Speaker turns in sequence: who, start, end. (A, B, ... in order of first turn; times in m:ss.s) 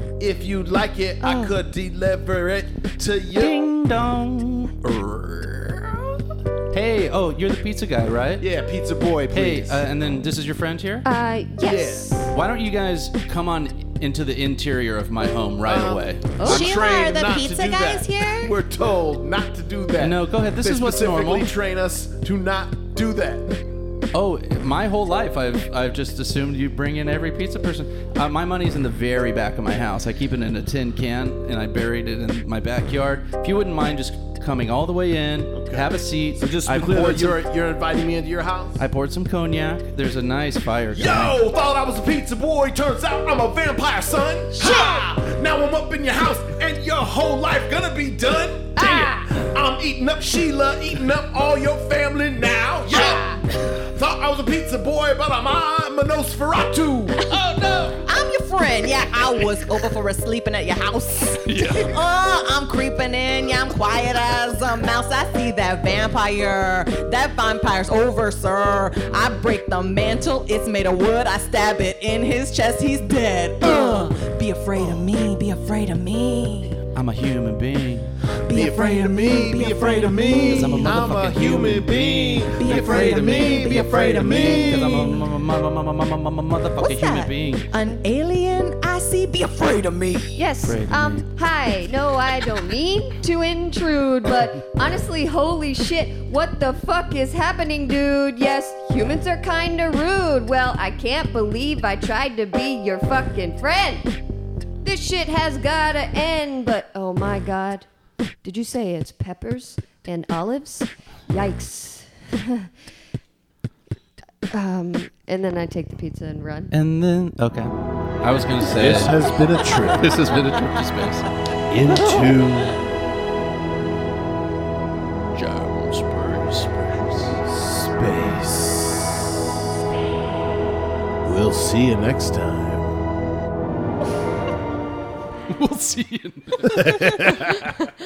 0:00.2-0:03.6 A
0:01.2-0:01.6 B
0:03.4-0:08.4 C
0:08.4-0:09.8 A
0:09.3-0:11.0 C
0:11.0-0:12.3 B
0:11.6-0:12.2 A
0:12.3-0:16.6 C
0:15.6-0:23.6 A
0:16.4-0:18.5 D
0:20.0-0:21.5 C
0:24.1-0:37.4 C
0:35.5-0:38.8 A
0:38.8-0:41.4 C
0:40.9-0:57.4 A
0:48.8-0:49.3 B
0:57.6-0:57.9 C
0:58.0-1:16.8 D
1:01.4-1:02.0 C
1:16.9-1:18.1 C
1:18.4-1:21.0 D
1:18.5-1:25.1 A
1:20.4-1:27.7 C
1:22.6-1:25.2 D
1:26.8-1:30.4 D
1:30.4-1:44.1 B
1:30.6-1:31.2 C
1:44.8-1:47.9 B
1:48.4-1:52.7 B
1:54.5-1:56.7 B
1:56.7-1:59.3 C
1:58.6-2:00.2 A
1:59.8-2:01.3 C
2:01.7-2:02.8 A
2:01.9-2:02.3 D
2:05.3-2:07.4 C
2:07.4-2:09.6 A
2:11.2-2:12.9 A
2:15.5-2:17.4 C
2:16.6-2:17.7 A